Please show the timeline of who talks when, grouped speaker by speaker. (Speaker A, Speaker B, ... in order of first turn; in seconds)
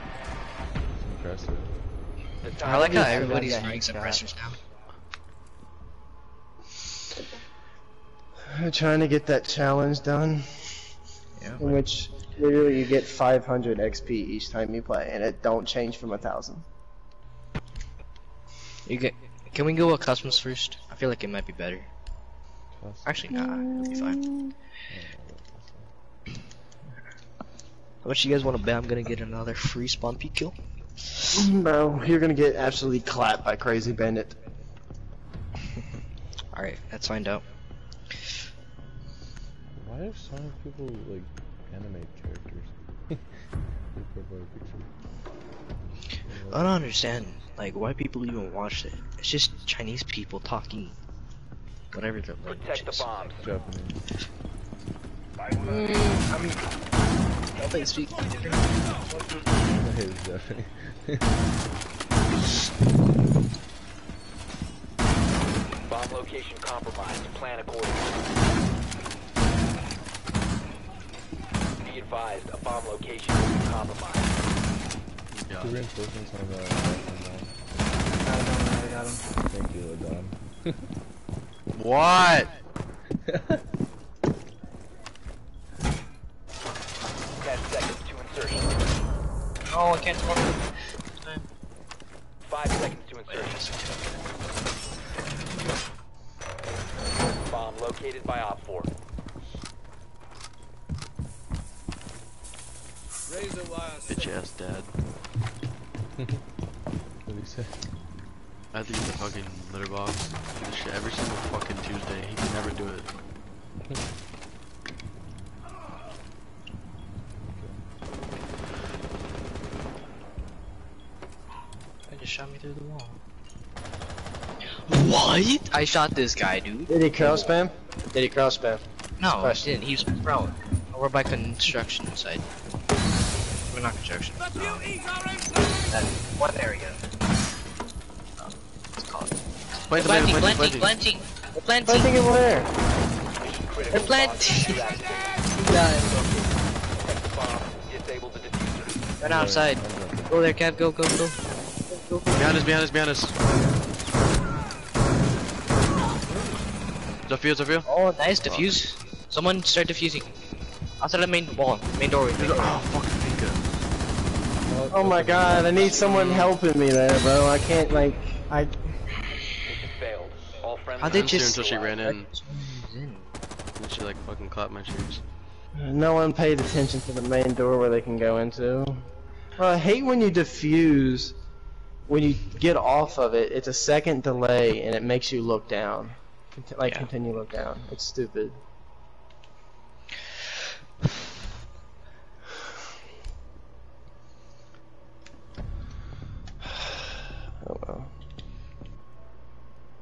Speaker A: 1.0-1.7, 22.7-23.4, 24.9-25.9, 39.7-43.2, 43.9-44.9, 46.3-46.8, 53.4-54.0, 59.8-61.3, 75.6-77.6, 79.5-80.9, 83.3-83.6, 107.2-107.8, 117.5-117.8, 149.2-150.4, 164.7-166.0
Speaker B: 2.4-3.8, 52.5-53.4, 65.9-68.2, 71.8-74.3, 87.4-88.9, 92.5-93.7, 97.3-98.9, 143.3-145.4, 146.9-149.0, 169.7-172.0
Speaker C: 2.6-4.6, 11.4-11.8, 18.9-21.9, 23.1-24.2, 28.0-30.6, 36.5-37.4, 38.1-38.4, 46.5-51.0, 51.9-53.1, 55.6-56.6, 57.6-59.2, 89.7-91.5, 93.3-94.3, 122.1-123.2, 124.9-127.5, 129.2-132.4, 133.7-137.1, 138.4-142.1, 143.9-146.5, 149.2-152.6, 157.8-160.3, 161.0-162.8, 171.0-173.3, 186.9-187.1
Speaker D: 2.6-4.2, 78.2-79.2, 168.5-169.0
Speaker E: 8.5-10.8, 11.6-16.6, 23.4-24.5, 31.3-34.4, 126.9-128.8, 129.4-129.7, 141.8-142.7, 164.9-168.4, 175.8-181.4, 182.1-188.6, 197.6-198.1
Speaker F: 75.3-75.8, 81.8-82.5, 104.1-105.0, 108.7-113.1, 139.9-140.9, 152.4-153.4, 157.3-157.9, 158.4-158.7, 162.4-163.7, 165.9-166.5, 171.1-172.3, 173.8-175.2